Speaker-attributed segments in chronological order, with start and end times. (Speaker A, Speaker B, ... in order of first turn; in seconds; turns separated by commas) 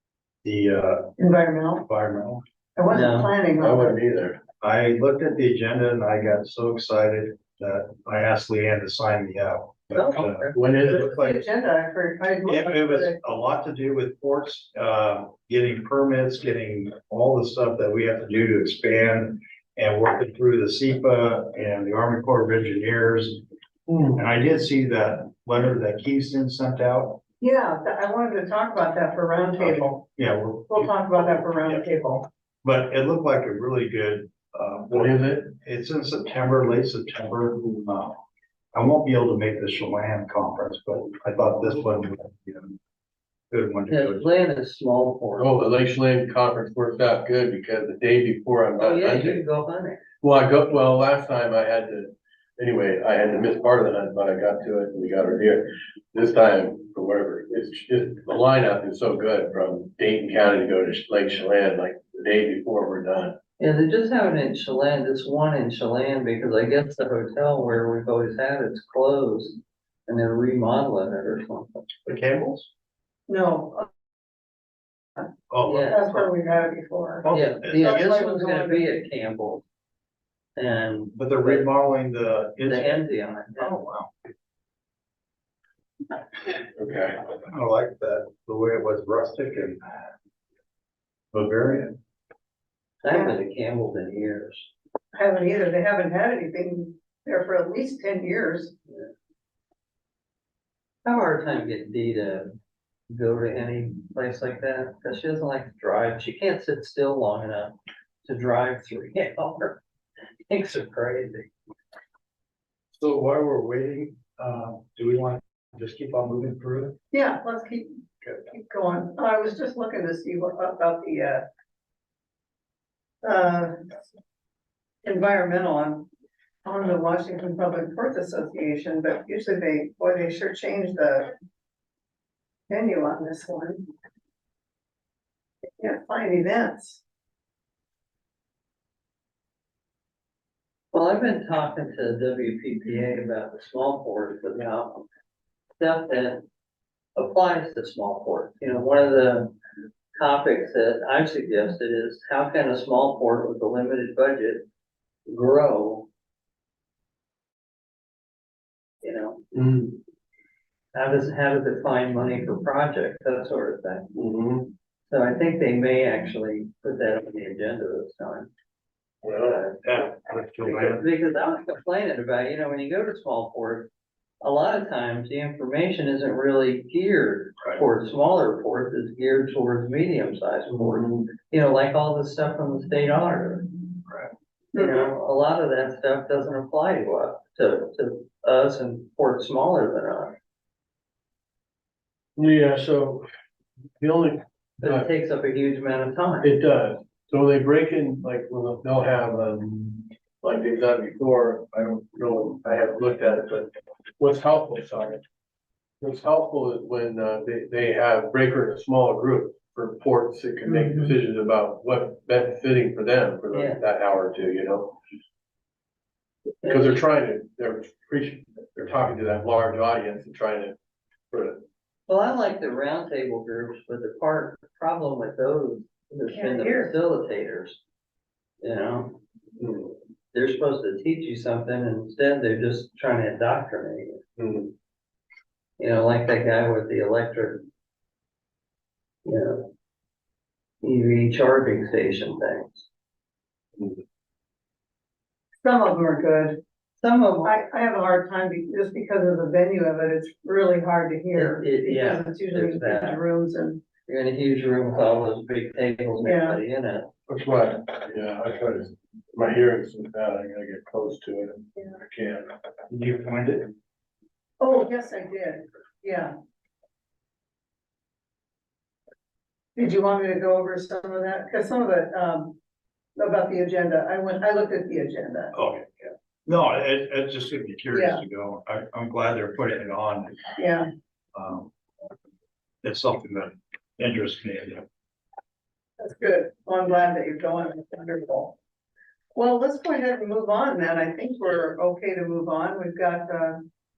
Speaker A: 0.4-1.1, Speaker B: 1.2-1.8, Speaker A: 1.8-2.4, Speaker B: 2.8-4.0, Speaker C: 2.9-3.3, Speaker D: 3.5-4.4, Speaker A: 4.6-11.4, Speaker C: 9.9-10.5, Speaker D: 10.1-11.1, Speaker B: 10.8-13.2, Speaker A: 12.4-23.4, Speaker D: 23.9-24.2, Speaker A: 24.1-27.2, Speaker B: 27.4-30.1, Speaker A: 29.6-38.2, Speaker B: 30.7-32.1, Speaker D: 34.9-35.5, Speaker A: 38.7-42.8, Speaker A: 43.5-44.3, Speaker C: 43.9-45.5, Speaker D: 45.4-49.4, Speaker C: 48.8-50.0, Speaker D: 50.2-63.4, Speaker C: 63.6-71.7, Speaker A: 72.0-72.7, Speaker B: 73.3-73.9, Speaker A: 75.5-76.0, Speaker C: 75.6-76.2, Speaker B: 75.9-78.8, Speaker A: 77.2-78.5, Speaker C: 77.3-79.6, Speaker C: 80.6-81.7, Speaker A: 81.1-84.1, Speaker C: 82.6-83.8, Speaker D: 86.8-87.3, Speaker A: 87.5-89.8, Speaker A: 91.3-91.9, Speaker C: 93.0-94.7, Speaker B: 93.1-93.4, Speaker B: 95.1-98.7, Speaker C: 101.0-102.5, Speaker C: 103.1-109.8, Speaker C: 110.5-111.5, Speaker A: 112.9-117.0, Speaker B: 117.1-121.5, Speaker B: 123.2-124.0, Speaker B: 125.0-126.1, Speaker B: 126.6-131.3, Speaker B: 132.7-133.8, Speaker B: 135.8-137.0, Speaker C: 140.9-145.0, Speaker C: 145.8-146.4, Speaker C: 147.2-149.5, Speaker C: 150.2-154.7, Speaker C: 155.3-156.1, Speaker C: 159.0-159.4, Speaker D: 159.5-160.0, Speaker C: 160.9-164.1, Speaker D: 164.1-164.7, Speaker C: 165.1-168.5, Speaker D: 169.2-169.7, Speaker C: 169.5-169.8, Speaker A: 169.8-171.0, Speaker C: 170.6-173.9, Speaker C: 174.4-184.0, Speaker C: 184.7-190.3, Speaker B: 184.7-185.1, Speaker D: 192.3-193.3, Speaker D: 194.0-195.1, Speaker C: 194.8-196.5, Speaker D: 196.4-205.2, Speaker D: 206.0-215.0, Speaker B: 210.7-211.0, Speaker C: 213.5-213.8, Speaker C: 216.6-216.9, Speaker D: 216.6-220.7, Speaker D: 221.3-221.6, Speaker C: 222.1-227.8, Speaker B: 226.3-226.9, Speaker C: 228.6-229.2, Speaker D: 229.6-229.9, Speaker C: 230.3-234.2, Speaker D: 234.4-234.7, Speaker C: 235.8-237.6, Speaker C: 239.2-239.7, Speaker C: 240.8-242.8, Speaker B: 245.6-246.6, Speaker C: 247.0-247.5, Speaker B: 247.4-253.8, Speaker C: 251.3-253.2, Speaker C: 254.1-257.1, Speaker B: 256.2-256.6, Speaker D: 257.3-262.5, Speaker A: 262.9-263.7, Speaker B: 264.6-266.3, Speaker B: 269.8-272.6, Speaker B: 273.2-275.5, Speaker A: 275.5-280.5, Speaker B: 277.9-278.2, Speaker B: 280.6-280.9, Speaker A: 281.3-281.7, Speaker A: 282.8-284.8, Speaker B: 286.0-288.6, Speaker B: 289.3-293.7